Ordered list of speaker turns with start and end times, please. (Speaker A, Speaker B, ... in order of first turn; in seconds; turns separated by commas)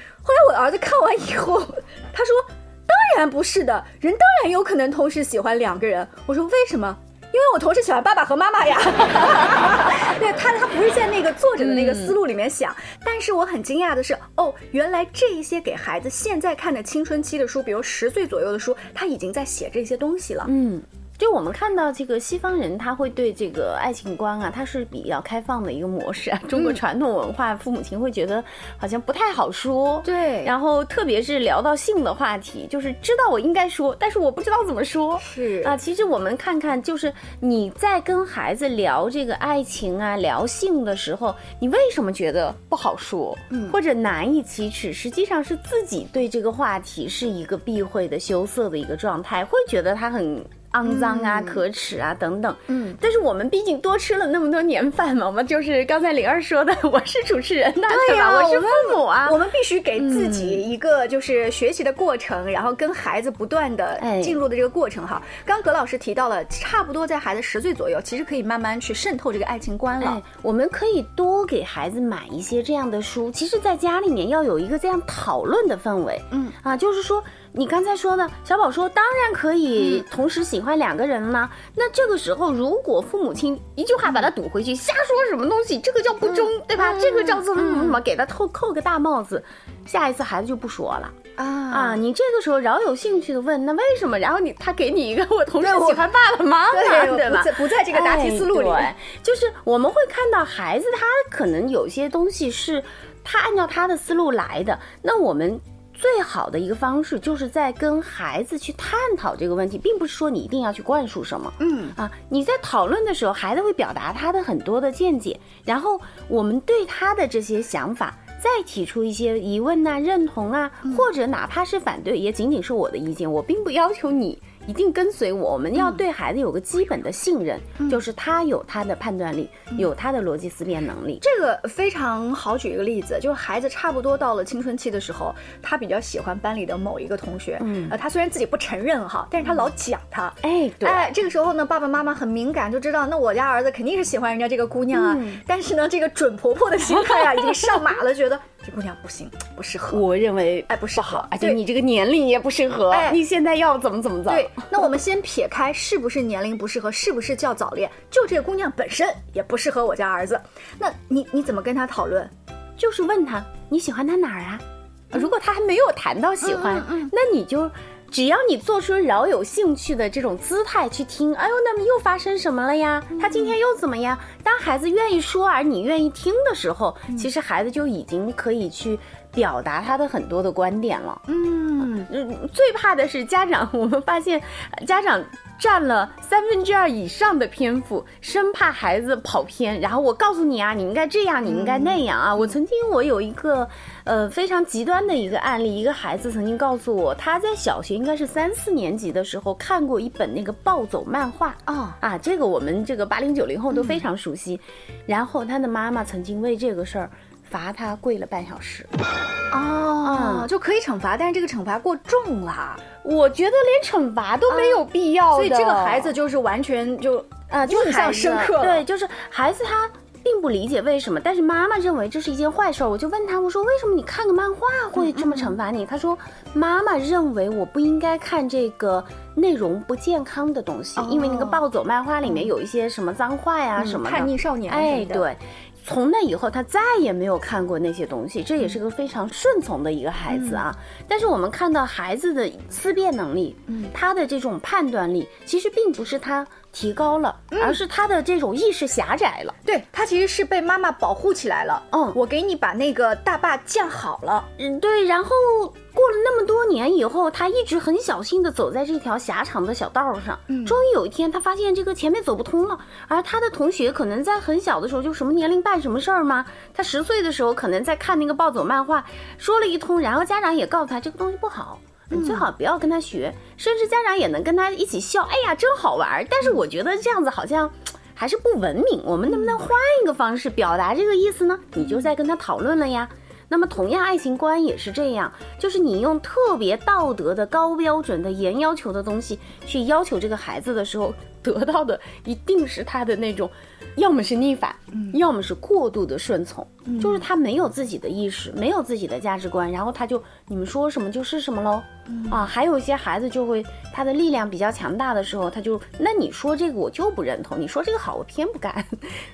Speaker A: 0.2-20.5, Speaker B: 11.6-12.2, Speaker B: 20.4-59.4, Speaker A: 26.5-26.8, Speaker A: 30.0-30.5, Speaker A: 35.2-35.8, Speaker A: 43.5-43.8, Speaker A: 50.9-51.6, Speaker A: 52.7-53.0, Speaker A: 57.9-70.2, Speaker B: 60.0-60.6, Speaker B: 64.0-64.4, Speaker B: 70.0-91.2, Speaker A: 79.8-80.0, Speaker A: 86.2-88.0, Speaker A: 91.4-92.0, Speaker B: 91.7-131.2, Speaker A: 95.6-96.1, Speaker A: 96.7-98.9, Speaker A: 111.6-112.0, Speaker A: 125.8-126.0, Speaker A: 131.2-150.0, Speaker B: 137.6-137.9, Speaker B: 140.4-141.1, Speaker B: 144.9-145.4, Speaker B: 149.9-154.6, Speaker A: 150.7-151.6, Speaker A: 152.9-153.2, Speaker A: 154.3-162.3, Speaker B: 162.8-181.2, Speaker A: 166.4-167.1, Speaker A: 173.2-173.6, Speaker A: 181.3-182.1, Speaker B: 181.9-208.9, Speaker A: 191.4-192.5, Speaker A: 201.7-202.0, Speaker A: 203.7-204.0, Speaker A: 209.5-212.8, Speaker B: 210.0-210.5, Speaker B: 213.0-216.1, Speaker A: 214.5-218.8, Speaker B: 217.5-249.6, Speaker A: 225.0-225.5, Speaker A: 231.0-231.6, Speaker A: 232.2-232.5, Speaker A: 233.8-235.3, Speaker A: 240.3-240.6, Speaker A: 243.7-243.9, Speaker A: 247.5-247.8, Speaker A: 249.7-254.5, Speaker B: 251.9-252.2, Speaker B: 254.6-309.2, Speaker A: 260.5-260.8, Speaker A: 272.1-272.4, Speaker A: 279.3-279.6, Speaker A: 296.9-297.2, Speaker A: 302.1-302.4